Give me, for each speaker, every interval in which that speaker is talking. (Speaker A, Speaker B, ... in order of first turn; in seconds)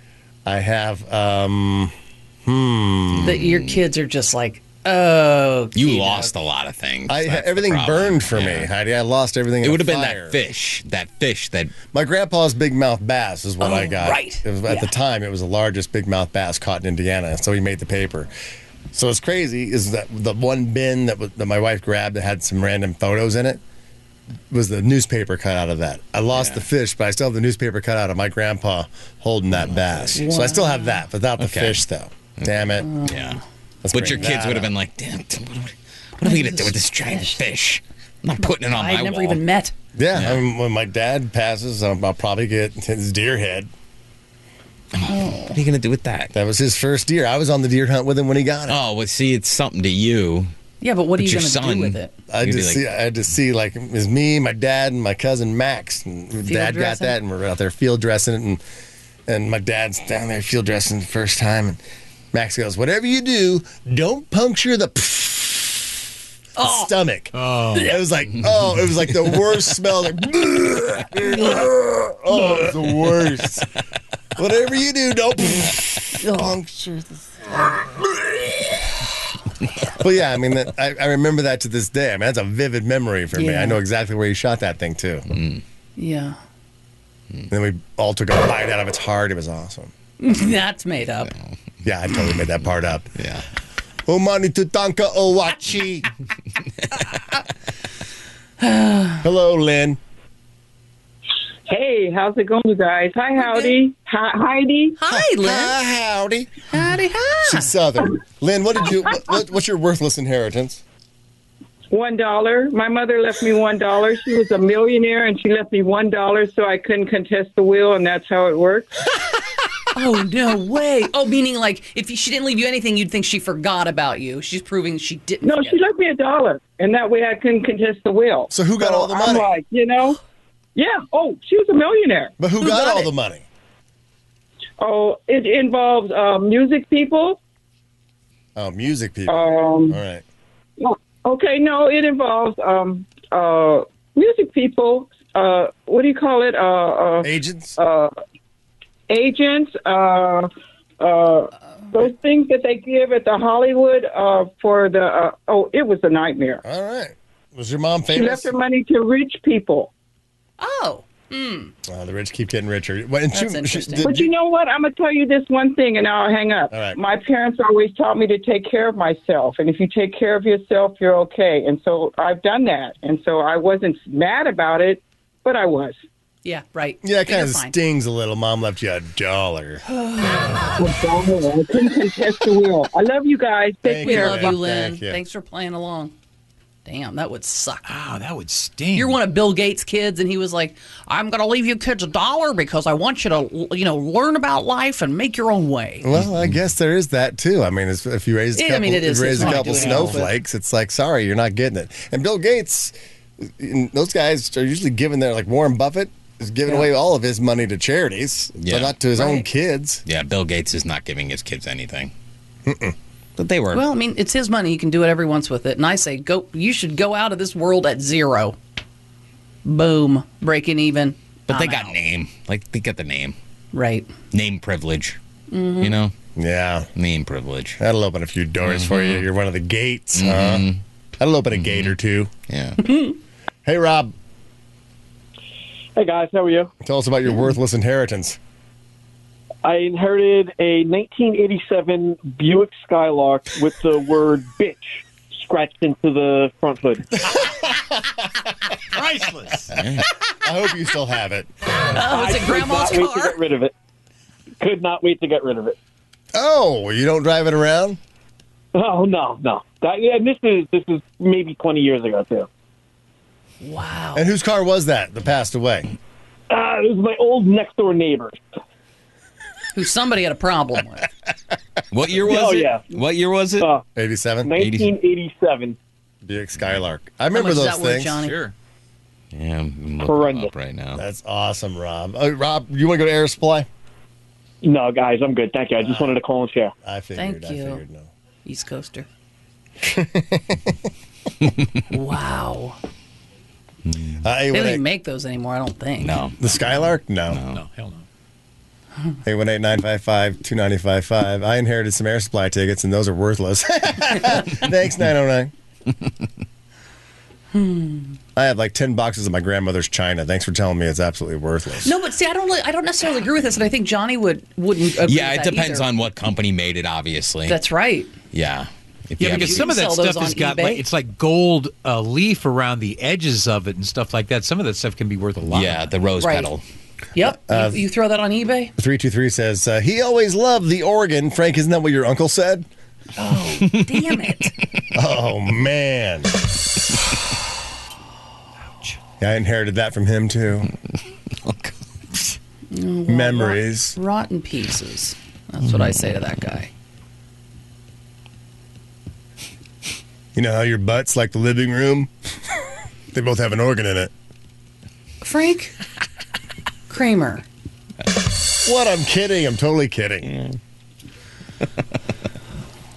Speaker A: 0.5-1.9, 2.5-3.4, 7.1-10.4, 11.9-18.3, 18.9-23.6, 24.5-32.9, 33.8-34.7, 40.0-43.7, 46.3-48.8, 52.3-58.6, 59.3-61.8, 62.3-66.0, 66.6-73.7, 74.4-78.0, 79.9-85.3, 87.5-89.9, 91.8-93.1, 94.1-96.1, 99.2-100.0, 105.1-106.6, 107.5-110.8, 128.5-129.5, 132.4-133.4, 138.6-140.2, 147.2-147.8, 156.6-158.5, 161.9-164.3, 166.7-167.0, 177.0-179.8, 183.9-185.2, 196.0-210.1, 212.7-212.9, 226.4-226.9, 227.8-230.7, 231.2-232.3, 233.7-234.1, 236.8-238.4, 250.4-251.5, 256.3-258.0, 264.1-265.9, 274.0-274.6, 276.2-278.3, 280.9-283.7, 285.8-286.1, 286.9-288.1, 289.8-290.7, 294.2-294.8, 296.4-297.4, 299.2-305.5, 308.4-312.0, 327.5-327.9, 328.8-332.7, 334.9-336.4, 339.2-340.7, 343.1-344.0, 350.4-352.1, 353.1-354.1, 358.6-360.4
Speaker B: 3.1-3.8, 5.8-8.7, 9.6-11.7, 26.3-26.7, 29.5-30.2, 31.4-31.8, 32.4-33.4, 33.9-39.4, 40.1-40.4, 45.0-46.3, 48.7-50.5, 51.2-52.8, 85.3-85.6, 93.2-93.5, 208.6-209.0, 210.1-212.1, 213.4-213.8, 221.5-223.4, 224.3-225.2, 225.8-226.1, 226.9-227.8, 228.6-229.3, 230.2-230.8, 231.5-232.0, 232.5-232.9, 249.8-250.1, 271.9-273.7, 274.5-275.0, 279.3-281.0, 293.9-294.1, 296.0-296.7, 297.3-297.6, 315.0-317.6, 318.3-319.7, 325.5-326.6, 341.4-341.8
Speaker C: 3.2-6.3, 13.6-14.9, 30.1-31.0, 32.8-33.4, 36.2-37.4, 38.4-39.7, 45.1-45.6, 50.8-52.1, 56.5-57.2, 66.6-66.9, 67.7-68.0, 71.3-71.7, 72.3-72.6, 76.2-76.6, 83.3-83.8, 86.0-86.4, 90.2-91.3, 98.6-99.2, 103.4-103.8, 105.0-105.8, 106.7-107.7, 119.9-125.8, 132.6-133.1, 160.6-161.7, 163.3-164.2, 176.4-177.8, 179.9-180.8, 184.0-186.1, 186.8-187.9, 188.9-196.1, 198.6-200.3, 206.7-206.9, 209.2-209.5, 213.7-218.6, 219.7-222.0, 223.7-224.1, 225.5-226.0, 251.9-253.4, 263.6-264.3, 269.7-271.1, 277.3-278.4, 287.2-287.8, 288.4-289.1, 291.9-292.8, 294.5-296.2, 307.5-308.1, 311.8-315.9, 317.5-318.1, 319.3-320.9, 326.2-326.5, 327.1-328.7, 333.2-334.6, 342.7-346.7, 355.2-355.7, 356.9-357.4
Speaker D: 67.4-67.8, 187.9-189.2, 199.4-200.2, 248.9-249.7, 297.5-298.1, 319.2-325.9
Speaker E: 101.7-105.0, 111.9-118.9, 125.4-130.2, 130.8-132.3, 134.8-137.4, 139.3-140.0, 140.8-148.1, 149.1-150.5, 151.0-156.6, 158.1-159.9, 164.0-176.0, 180.8-184.6
Speaker F: 236.0-236.7, 239.7-247.1, 252.0-253.7, 254.6-255.8, 258.7-262.5, 266.5-268.4, 272.1-273.0, 273.6-273.8, 274.4-275.8, 280.0-280.5, 284.6-286.7